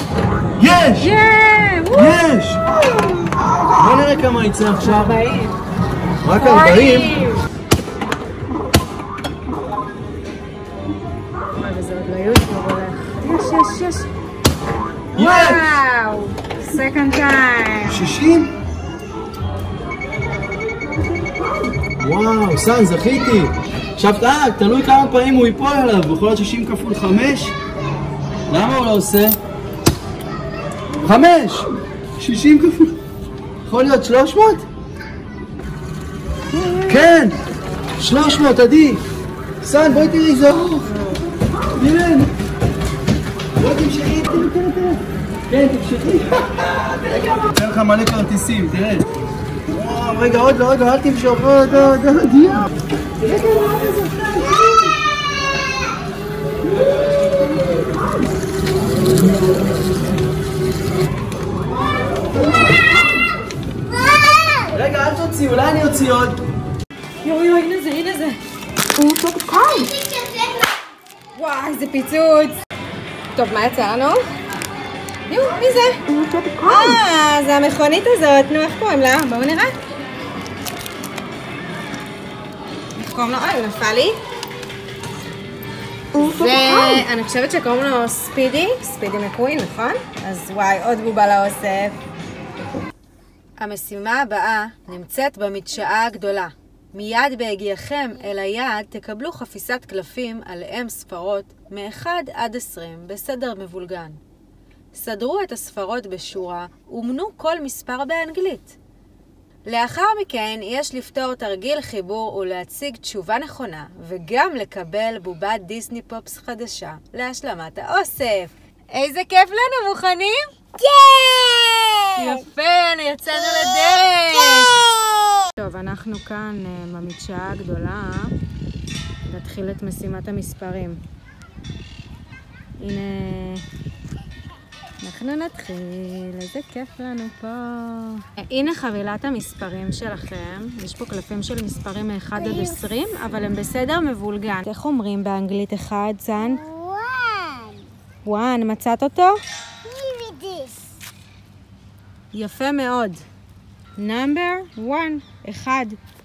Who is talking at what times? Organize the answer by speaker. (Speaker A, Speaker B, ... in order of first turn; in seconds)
Speaker A: 0.6-1.1, 1.9-2.6, 3.8-5.2, 6.2-7.2, 15.2-15.7, 17.9-18.5, 22.0-27.6, 28.5-29.4, 31.0-33.0, 33.6-34.6, 36.8-37.4, 38.0-39.0, 39.6-40.9, 41.8-42.3, 43.6-49.0, 49.7-52.7, 64.7-66.4
Speaker B: 1.0-3.3, 4.8-5.5, 6.3-7.4, 11.6-14.1, 15.1-18.1, 36.6-37.0, 53.4-54.2, 67.2-68.4, 69.0-69.6, 71.3-72.6, 73.3-74.2, 75.3-79.7, 82.9-84.2, 86.1-92.0, 93.6-104.2, 104.9-108.8, 109.7-120.5, 122.2-124.8, 125.5-128.3, 129.2-131.0, 132.8-133.6, 135.0-146.6, 148.2-149.4, 152.3-153.2, 154.0-156.0
Speaker C: 63.9-64.8, 69.5-70.7, 120.8-122.4, 123.3-125.5, 142.3-142.8, 146.4-147.9, 149.8-151.0